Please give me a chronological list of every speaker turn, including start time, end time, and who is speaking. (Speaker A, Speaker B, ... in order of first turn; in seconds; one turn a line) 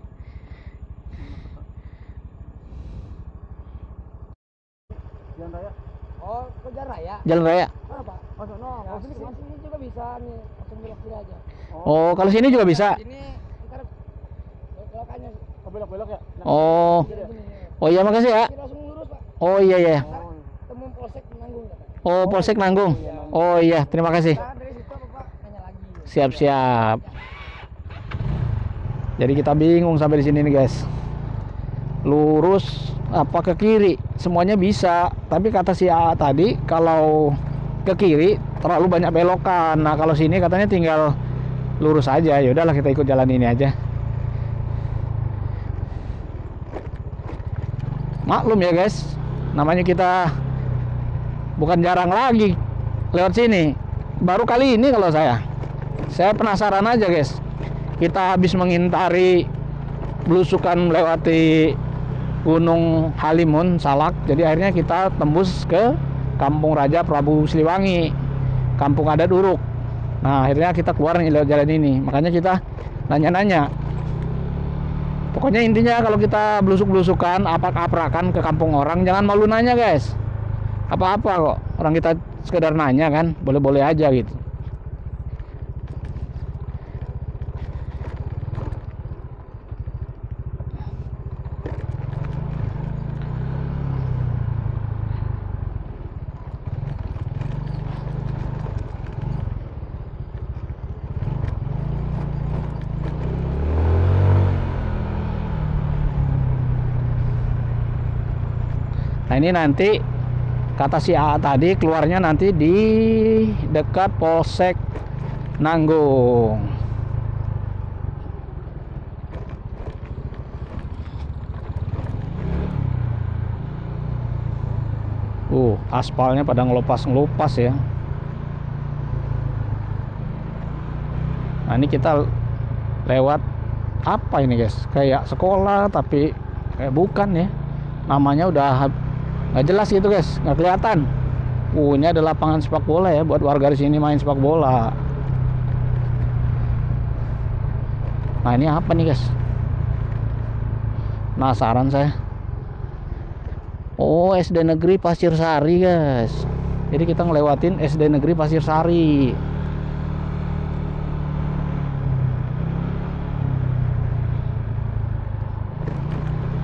Speaker A: 1.1-1.6
Speaker A: 5.3-5.8
Speaker B: 6.2-7.2
Speaker C: 7.2-7.7
Speaker B: 7.9-8.2
Speaker A: 8.4-9.4
Speaker B: 9.3-11.4
Speaker C: 11.8-13.0
Speaker B: 13.0-13.8
Speaker B: 14.8-15.4
Speaker A: 15.6-17.4
Speaker C: 16.4-17.1
Speaker B: 17.2-17.7
Speaker C: 17.8-18.5
Speaker B: 18.6-19.2
Speaker C: 19.4-20.1
Speaker A: 20.0-20.6
Speaker B: 20.7-21.9
Speaker C: 22.0-24.4
Speaker A: 22.2-23.4
Speaker B: 24.4-26.0
Speaker C: 26.0-27.1
Speaker C: 29.2-30.9
Speaker C: 32.0-41.1
Speaker C: 41.8-43.7
Speaker C: 48.3-50.3
Speaker C: 51.6-52.6
Speaker C: 53.1-55.4
Speaker C: 56.1-57.4
Speaker C: 58.0-59.5
Speaker C: 60.3-61.8
Speaker C: 62.4-68.1
Speaker C: 68.8-69.6
Speaker C: 70.2-73.7
Speaker C: 75.3-80.2
Speaker C: 80.9-84.4
Speaker C: 109.3-110.0
Speaker C: 110.8-114.8
Speaker C: 115.6-116.7
Speaker C: 125.5-127.8
Speaker C: 131.7-132.3
Speaker C: 133.1-133.4
Speaker C: 134.1-137.5
Speaker C: 138.1-138.9
Speaker C: 139.5-141.1
Speaker C: 141.7-144.9
Speaker C: 148.4-149.3
Speaker C: 151.4-152.1
Speaker C: 154.0-159.4